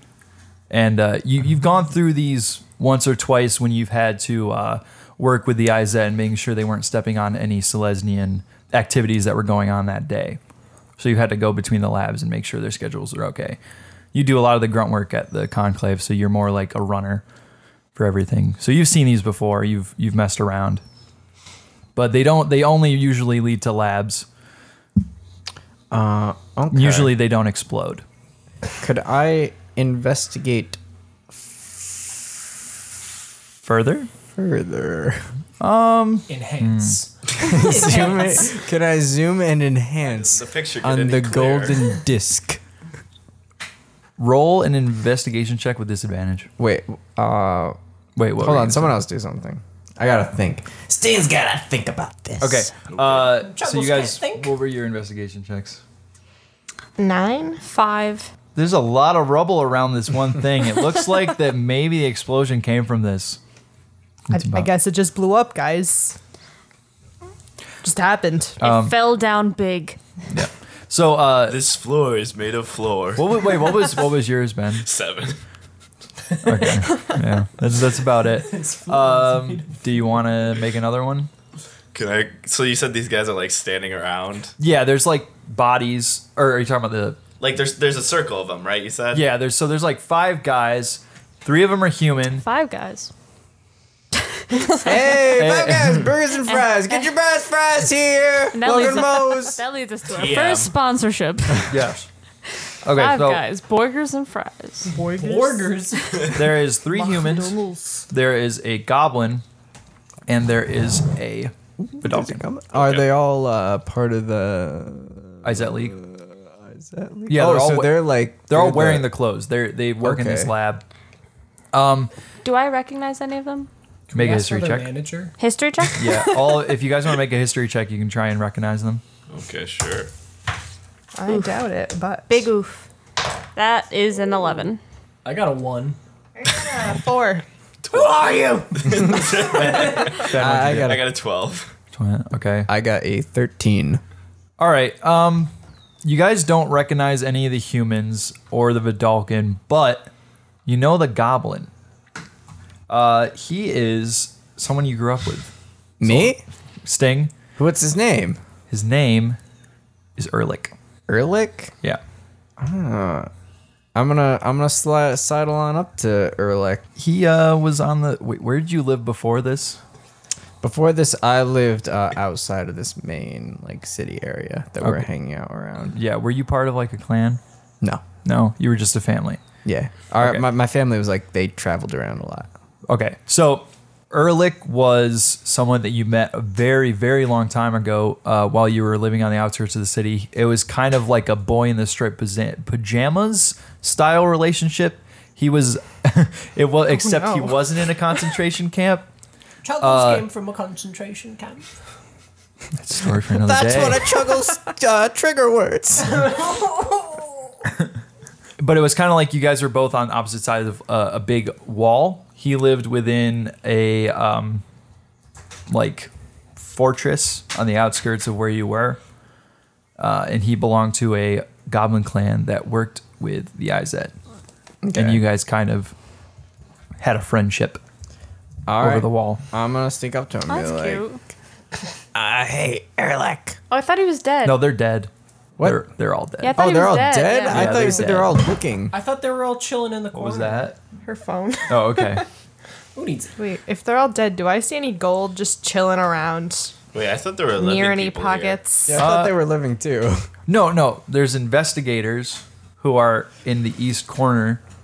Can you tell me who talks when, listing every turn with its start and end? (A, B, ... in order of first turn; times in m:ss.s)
0:00.7-0:10.4 A
0:11.0-0:13.6 A
0:14.1-0:17.2 A
0:18.0-0:20.8 A
0:22.0-0:24.3 A
0:25.9-0:27.2 B
0:26.7-0:28.0 A
0:28.8-0:30.8 B
0:33.6-0:34.1 A
0:34.4-0:35.3 B
0:35.6-0:37.0 A
0:36.3-0:38.2 C
0:37.4-0:42.6 B
0:40.0-0:41.9 D
0:44.2-0:46.5 A
0:46.6-0:47.8 B
0:48.2-0:49.0 A
0:48.4-0:52.7 B
0:52.4-0:55.8 A
0:53.0-0:53.3 D
0:53.4-0:54.5 E
0:57.0-0:57.6 F
0:57.6-0:58.3 G
0:58.6-1:03.4 A
1:04.3-1:04.7 A
1:04.3-1:06.2 F
1:07.8-1:08.6 F
1:08.6-1:09.0 A
1:08.6-1:10.0 G
1:10.3-1:11.6 A
1:11.5-1:14.0 D
1:13.2-1:14.9 A
1:14.8-1:15.4 D
1:16.4-1:21.3 A
1:16.5-1:16.8 C
1:18.3-1:20.2 C
1:21.9-1:24.5 D
1:24.6-1:27.2 A
1:27.4-1:29.3 D
1:29.1-1:32.4 A
1:32.4-1:33.1 G
1:34.8-1:39.6 B
1:35.3-1:36.1 A
1:36.5-1:37.1 G
1:38.5-1:41.7 G
1:40.1-1:40.7 D
1:41.7-1:42.1 A
1:42.8-1:43.4 A
1:42.8-1:44.9 G
1:44.8-1:46.4 C
1:44.9-1:45.8 F
1:46.2-1:47.6 A
1:46.9-1:48.1 F
1:48.1-1:49.4 A
1:50.3-1:52.4 A
1:51.8-1:59.1 B
1:52.7-1:53.1 D
1:55.4-1:56.0 A
1:57.3-2:00.8 A
2:00.0-2:00.5 B
2:01.7-2:02.1 A
2:02.4-2:03.7 G
2:04.1-2:05.3 C
2:04.1-2:04.9 A
2:05.4-2:06.3 G
2:06.0-2:09.0 A
2:09.3-2:10.1 D
2:11.2-2:12.4 F
2:12.3-2:12.9 G
2:13.6-2:14.8 G
2:15.2-2:16.0 C
2:16.4-2:17.4 F
2:17.8-2:21.7 D
2:18.9-2:19.3 B
2:19.5-2:21.1 A
2:20.3-2:21.2 B
2:21.9-2:22.7 A
2:22.7-2:24.0 B
2:24.6-2:25.5 A
2:26.0-2:30.1 A
2:30.7-2:31.7 A
2:32.9-2:37.3 A
2:36.0-2:36.4 B
2:37.6-2:38.4 B
2:38.7-2:39.4 A
2:40.2-2:40.7 A
2:41.1-2:41.7 B
2:42.6-2:43.3 B
2:44.0-2:46.8 B
2:47.0-2:49.8 A
2:50.6-2:56.0 B
2:54.8-2:55.1 A
2:55.9-2:57.4 A
2:58.2-2:59.4 A
2:59.6-3:02.5 B
3:02.9-3:19.1 A
3:16.9-3:17.6 F
3:19.6-3:21.7 E
3:19.8-3:20.3 A
3:22.8-3:24.1 A
3:23.3-3:26.3 B
3:26.1-3:27.5 E
3:28.6-3:34.6 A
3:35.7-3:39.0 A
3:40.0-3:44.1 A
3:44.8-3:45.2 B
3:45.0-3:45.9 A
3:47.0-3:47.8 A
3:48.7-3:51.0 B
3:48.8-3:49.4 A
3:50.5-3:51.2 G
3:52.1-3:53.6 B
3:53.7-3:54.6 G
3:54.4-3:55.1 A
3:55.6-3:55.9 B
3:55.6-3:56.6 A
3:56.4-3:58.1 G
3:56.5-3:59.0 B
3:57.5-3:58.4 A
3:58.9-4:00.7 C
4:00.1-4:00.8 A
4:01.0-4:02.2 F
4:01.7-4:02.2 A
4:03.0-4:03.3 C
4:03.4-4:06.8 F
4:06.9-4:08.6 D
4:07.6-4:09.1 F
4:08.9-4:10.3 B
4:08.9-4:09.4 A
4:10.5-4:14.6 A